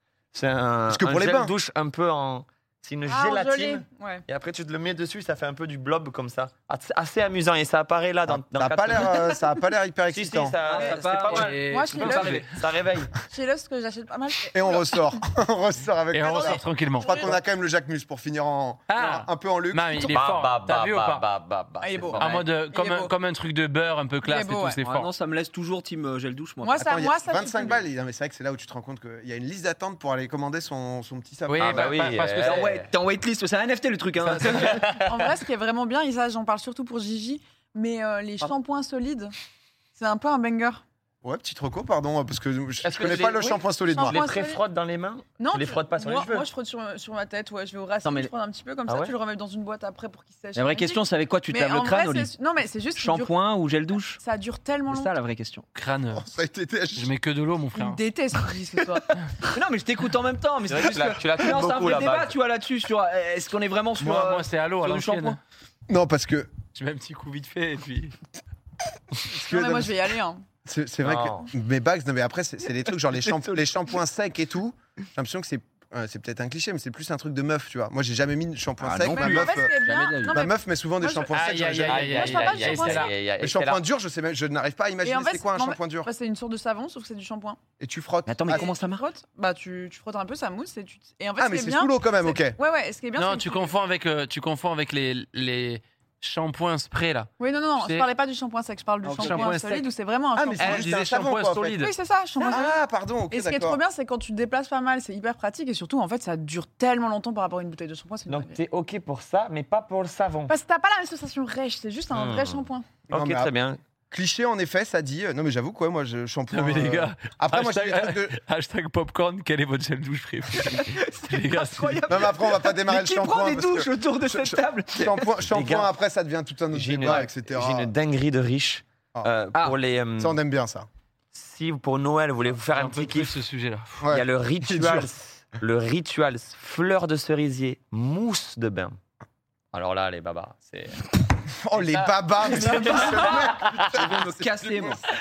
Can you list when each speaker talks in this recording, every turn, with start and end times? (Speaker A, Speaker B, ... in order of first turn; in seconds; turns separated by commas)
Speaker A: 0.3-9.3, Speaker B: 0.9-1.5, Speaker C: 3.1-4.2, Speaker B: 8.3-10.6, Speaker A: 10.1-13.1, Speaker D: 10.7-12.3, Speaker E: 11.2-12.5, Speaker C: 11.5-12.5, Speaker C: 13.2-15.1, Speaker B: 14.5-20.1, Speaker E: 16.1-17.1, Speaker C: 16.3-17.4, Speaker E: 18.9-21.2, Speaker A: 20.1-22.4, Speaker C: 21.8-23.1, Speaker E: 22.2-25.1, Speaker C: 24.2-24.8, Speaker D: 24.8-26.8, Speaker C: 26.6-27.9, Speaker B: 26.8-32.0, Speaker E: 31.5-32.7, Speaker A: 31.6-32.9, Speaker D: 32.4-34.9, Speaker A: 34.3-35.0, Speaker C: 35.0-39.3, Speaker C: 39.9-40.8, Speaker B: 41.2-44.2, Speaker A: 42.8-46.5, Speaker C: 43.9-44.6, Speaker C: 45.4-53.4, Speaker D: 48.0-48.3, Speaker A: 48.9-49.1, Speaker D: 50.5-52.3, Speaker D: 53.0-54.2, Speaker C: 54.1-55.1, Speaker D: 54.9-55.6, Speaker E: 55.8-56.2, Speaker B: 56.1-57.1, Speaker E: 56.9-58.0, Speaker C: 57.7-59.1, Speaker D: 59.0-65.4, Speaker A: 60.6-62.4, Speaker E: 64.0-65.4, Speaker B: 65.9-66.5, Speaker E: 66.7-68.2, Speaker B: 69.2-70.0, Speaker C: 69.5-70.4, Speaker B: 70.7-82.1, Speaker A: 71.0-71.5, Speaker D: 73.2-73.6, Speaker D: 78.8-80.4, Speaker C: 79.1-81.5, Speaker E: 81.3-83.1, Speaker A: 81.8-83.8, Speaker C: 82.0-83.1, Speaker B: 83.4-86.1, Speaker C: 85.0-87.6, Speaker B: 87.8-88.7, Speaker D: 88.2-89.0, Speaker C: 88.5-93.7, Speaker B: 91.4-92.6, Speaker E: 93.2-98.1, Speaker C: 97.4-100.8, Speaker D: 99.0-99.5, Speaker E: 99.2-99.9, Speaker B: 100.3-101.8, Speaker E: 100.6-101.9, Speaker C: 101.8-102.8, Speaker D: 102.4-102.6, Speaker B: 102.5-103.8, Speaker C: 103.3-108.6, Speaker A: 108.3-110.5, Speaker C: 110.5-112.9, Speaker A: 112.1-113.8, Speaker B: 113.1-113.5, Speaker B: 114.1-118.3, Speaker E: 116.5-122.1, Speaker D: 120.5-125.2, Speaker B: 122.1-127.9, Speaker A: 125.5-125.9, Speaker A: 126.7-130.4, Speaker B: 130.2-130.9, Speaker A: 131.3-133.4, Speaker E: 132.7-134.0, Speaker B: 134.0-135.1, Speaker A: 134.1-139.0, Speaker A: 139.7-141.1, Speaker B: 141.4-145.0, Speaker E: 141.8-142.1, Speaker D: 142.4-145.0, Speaker A: 142.7-144.1, Speaker E: 142.9-143.2